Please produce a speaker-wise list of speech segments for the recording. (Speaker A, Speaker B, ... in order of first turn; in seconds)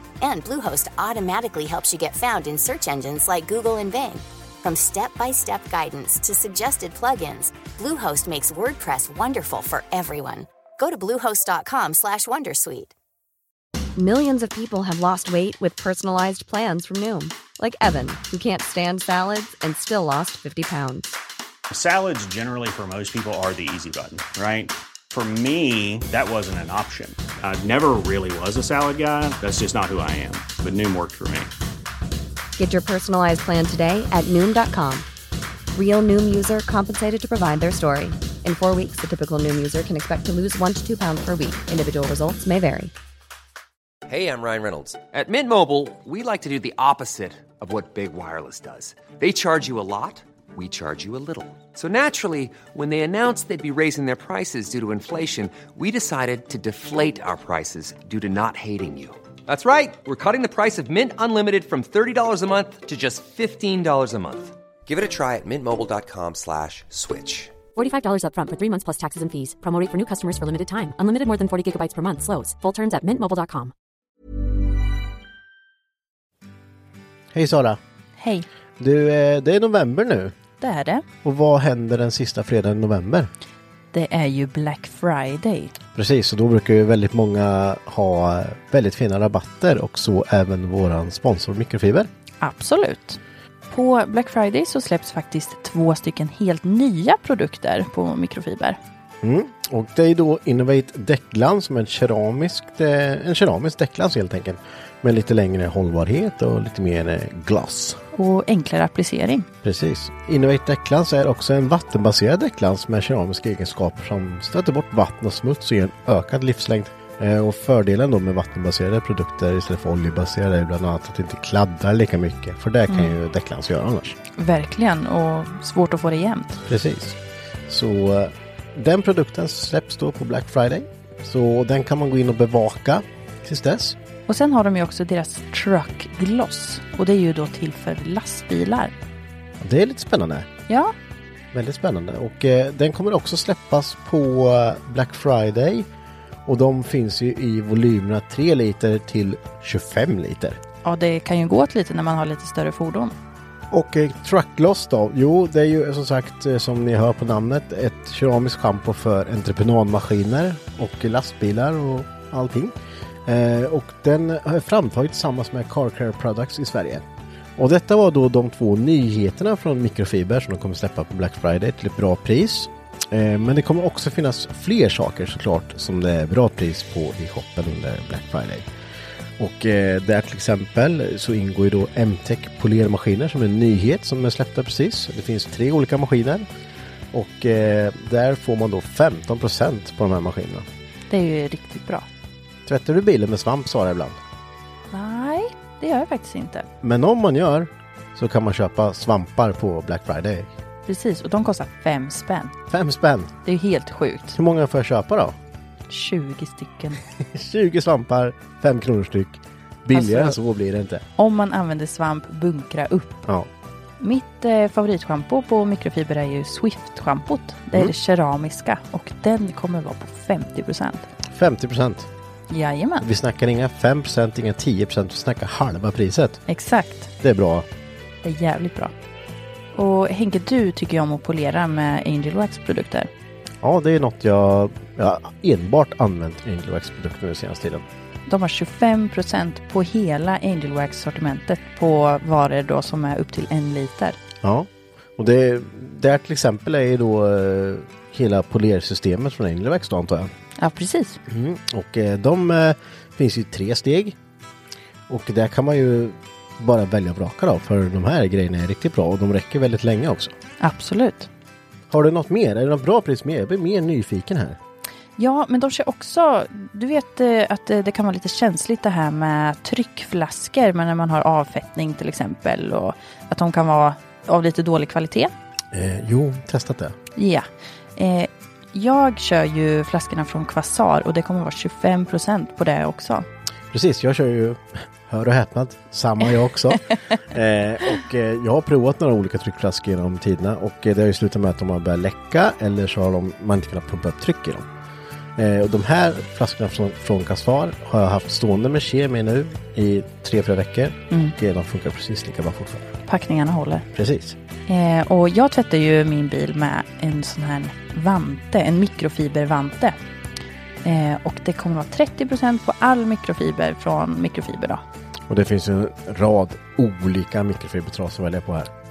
Speaker A: 0.2-12.9
Speaker B: 14.0-21.2, 32.6-35.1, 35.7-42.9
Speaker C: 21.7-31.5
Speaker D: 44.1-67.5
Speaker E: 67.8-73.7
Speaker F: 77.3-77.8, 78.8-80.3, 81.2-83.3, 86.0-92.1, 99.2-108.0, 109.6-124.2, 126.7-134.0, 139.6-140.5, 141.5-145.9, 146.5-150.6, 153.7-162.8, 163.3-167.1, 167.6-178.7, 179.4-186.5, 187.1-190.7, 192.7-194.2, 196.8-200.5, 202.7-203.3, 204.3-205.4, 207.3-211.1, 221.3-222.1, 223.0-226.4, 227.2-227.7, 233.6-237.8, 244.4-250.3, 251.3-254.2, 255.1-260.3, 261.9-264.6, 275.7-277.0, 283.7-294.7, 295.4-303.0, 303.9-304.4, 315.3-318.7
Speaker G: 78.2-78.5, 80.6-81.0, 83.9-85.7, 92.4-98.8, 108.2-109.5, 122.9-123.2, 124.4-126.6, 134.3-138.9, 140.7-140.9, 150.8-153.2, 191.1-192.1, 194.9-196.7, 200.9-202.5, 203.4-204.4, 205.9-207.0, 209.9-210.4, 211.2-213.2, 214.0-221.1, 222.5-223.1, 226.5-227.1, 228.2-228.9, 229.7-233.1, 238.3-244.2, 250.6-251.2, 260.6-261.3, 265.2-275.3, 277.2-283.3, 303.1-303.9, 304.7-310.0, 310.8-314.8